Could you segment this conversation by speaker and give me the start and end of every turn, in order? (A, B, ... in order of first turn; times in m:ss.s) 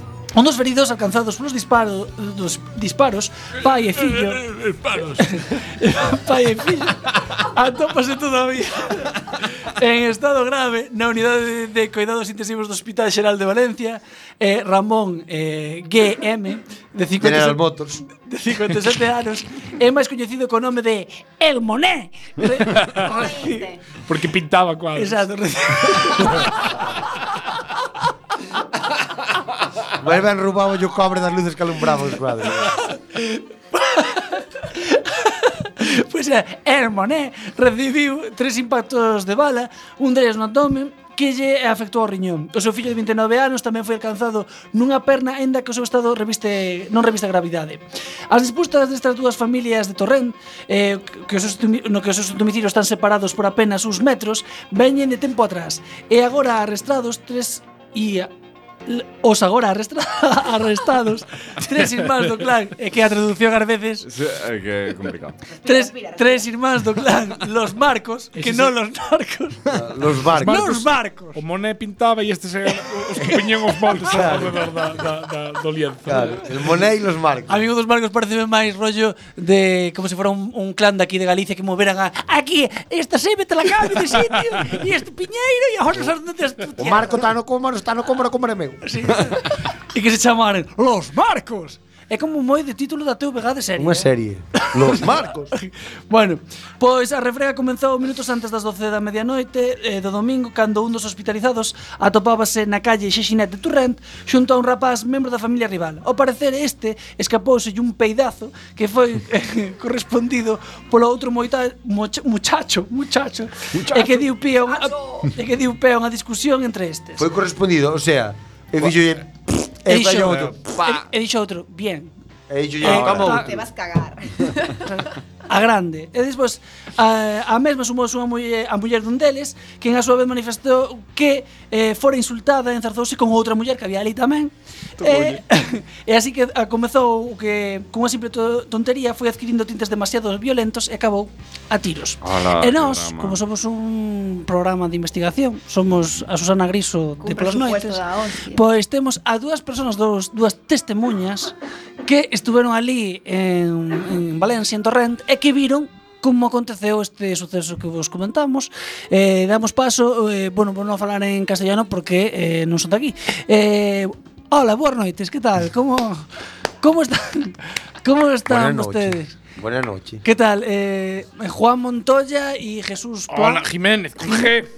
0:00.3-0:04.5 A
0:04.0-0:05.4 B
0:05.2-0:23.7 A
0:17.2-0:18.0 C
0:23.3-0:23.8 D
0:24.0-0:25.2 B
0:25.0-0:26.5 A
0:25.9-0:26.4 B
0:30.0-0:32.7 C
0:32.8-0:58.3 A
0:58.8-1:04.1 A
1:04.0-1:05.4 E
1:05.5-1:06.5 D
1:05.6-1:09.6 A
1:08.3-1:08.7 B
1:09.7-1:10.6 C
1:10.4-1:16.4 B
1:10.4-1:11.4 A
1:14.0-1:14.7 C
1:16.0-1:17.7 C
1:17.5-1:27.3 A
1:26.8-1:28.9 C
1:28.8-1:34.1 A
1:33.8-1:35.5 C
1:34.7-1:35.0 A
1:35.6-1:57.2 A
1:57.2-2:00.6 C
1:59.9-2:02.1 A
2:00.2-2:01.0 E
2:02.5-2:03.6 C
2:02.8-2:03.4 A
2:02.8-2:03.6 E
2:02.9-2:05.1 D
2:05.5-2:46.3 A
2:15.0-2:15.3 E
2:22.2-2:23.4 E
2:27.2-2:28.6 D
2:46.8-2:49.3 A
2:48.4-2:50.2 C
2:50.2-2:53.6 A
2:53.3-2:54.7 B
2:54.2-2:54.5 A